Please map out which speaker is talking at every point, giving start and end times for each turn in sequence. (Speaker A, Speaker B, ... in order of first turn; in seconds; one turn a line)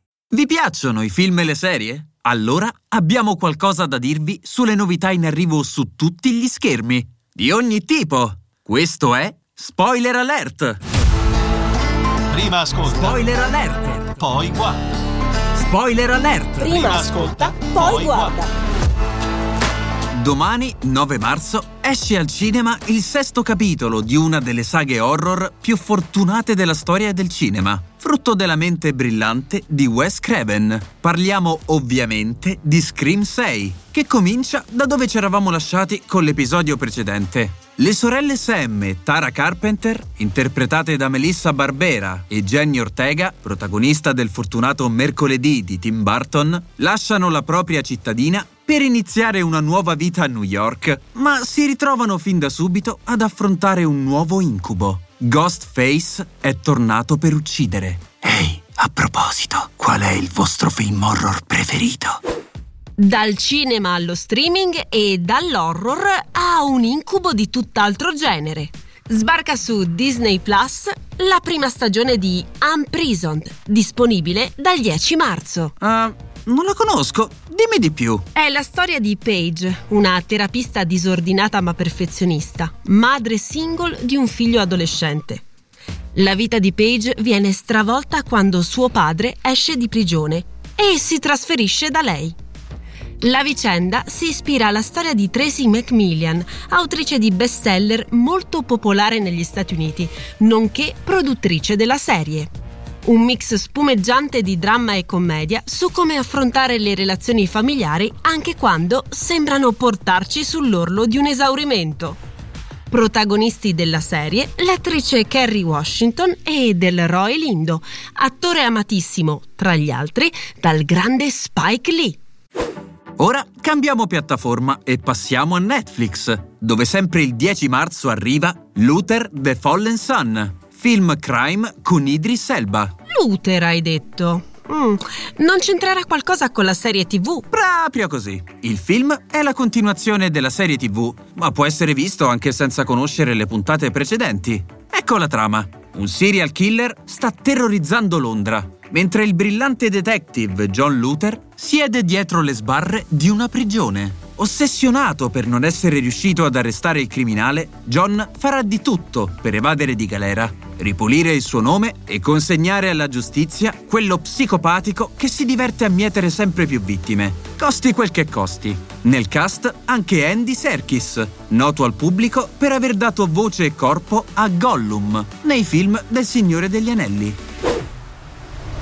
Speaker A: 0.3-10.8
Speaker B: 12.3-13.1
Speaker A: 12.8-14.2
Speaker B: 14.5-14.8
Speaker A: 15.5-17.0
Speaker C: 16.6-18.5
Speaker B: 16.9-18.3
Speaker A: 20.1-62.2
Speaker C: 63.0-75.7
Speaker A: 75.8-78.2
Speaker C: 78.3-85.4
Speaker C: 86.1-92.3
Speaker C: 93.2-102.5
Speaker C: 103.0-112.2
Speaker C: 112.9-122.2
Speaker A: 123.2-132.9
Speaker C: 133.1-137.5
Speaker A: 137.5-177.4